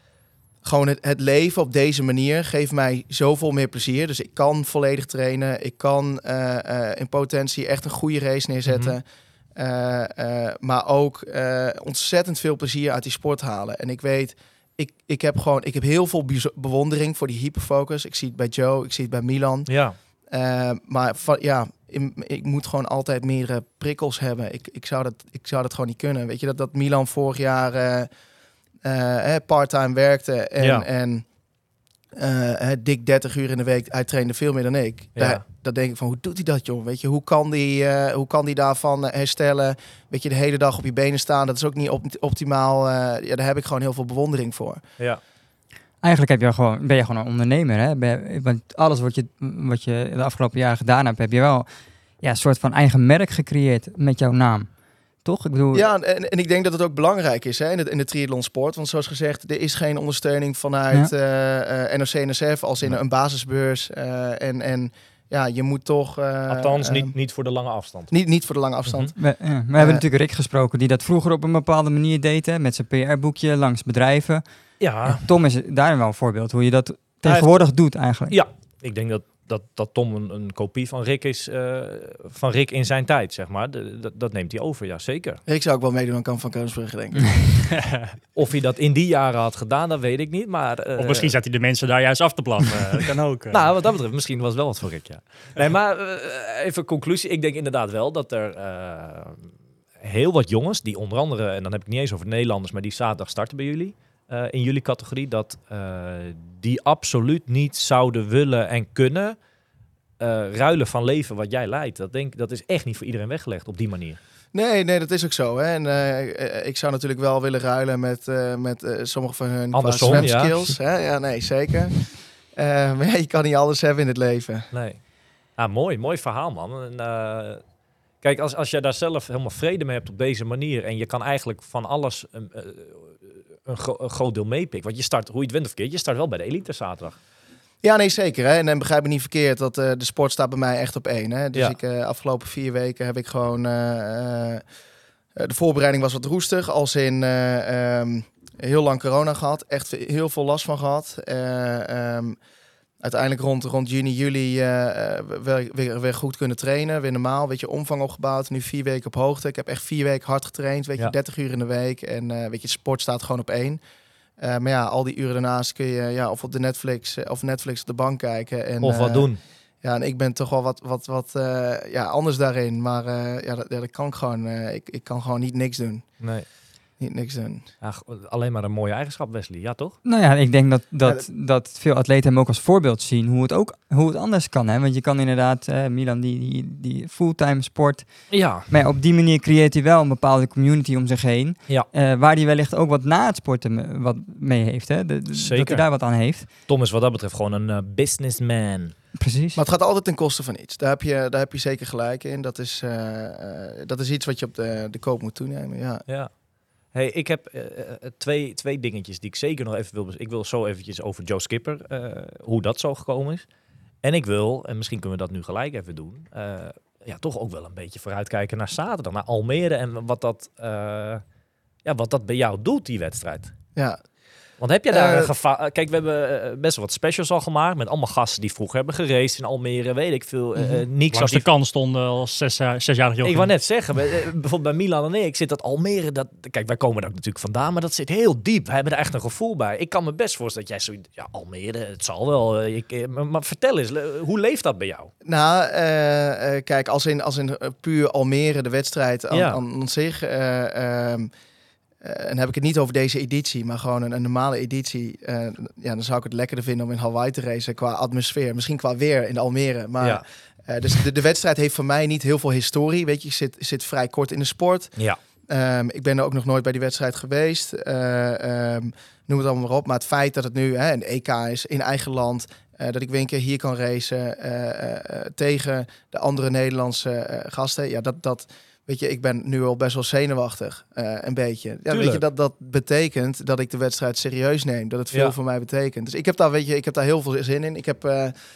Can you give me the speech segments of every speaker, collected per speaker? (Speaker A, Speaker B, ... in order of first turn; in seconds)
Speaker A: 0.6-9.0, 9.6-19.7, 20.3-28.1, 28.8-31.2, 32.2-44.8, 55.7-67.1, 68.1-69.2, 69.8-70.0, 85.5-87.4, 114.5-124.7, 137.8-144.6, 145.3-152.4, 153.0-163.8, 164.4-169.3, 169.8-176.2, 177.0-177.7, 199.5-206.0, 223.8-224.0, 224.9-225.3, 245.2-251.3, 252.0-264.9, 265.5-288.3
Speaker B: 8.6-8.9, 19.7-19.9, 30.6-30.9, 35.1-35.4, 66.5-68.1, 74.8-75.2, 77.2-77.6, 78.3-85.4, 88.3-91.3, 93.5-99.5, 100.0-109.4, 110.2-114.2, 119.7-120.6, 124.7-125.0, 125.6-127.6, 128.2-137.2, 168.8-169.4, 176.2-176.5, 177.8-179.9, 188.3-188.7, 195.3-195.8, 196.7-198.9, 206.1-206.3, 206.9-213.4, 214.0-221.2, 221.8-223.5, 224.6-231.4, 233.2-245.1, 249.3-249.6, 281.9-282.2
Speaker C: 46.0-51.7, 52.2-54.7, 55.2-55.9, 69.2-74.4, 75.0-78.4, 180.0-188.1, 188.6-196.5, 199.2-199.6
Speaker D: 87.8-88.1, 91.0-93.6, 231.1-233.5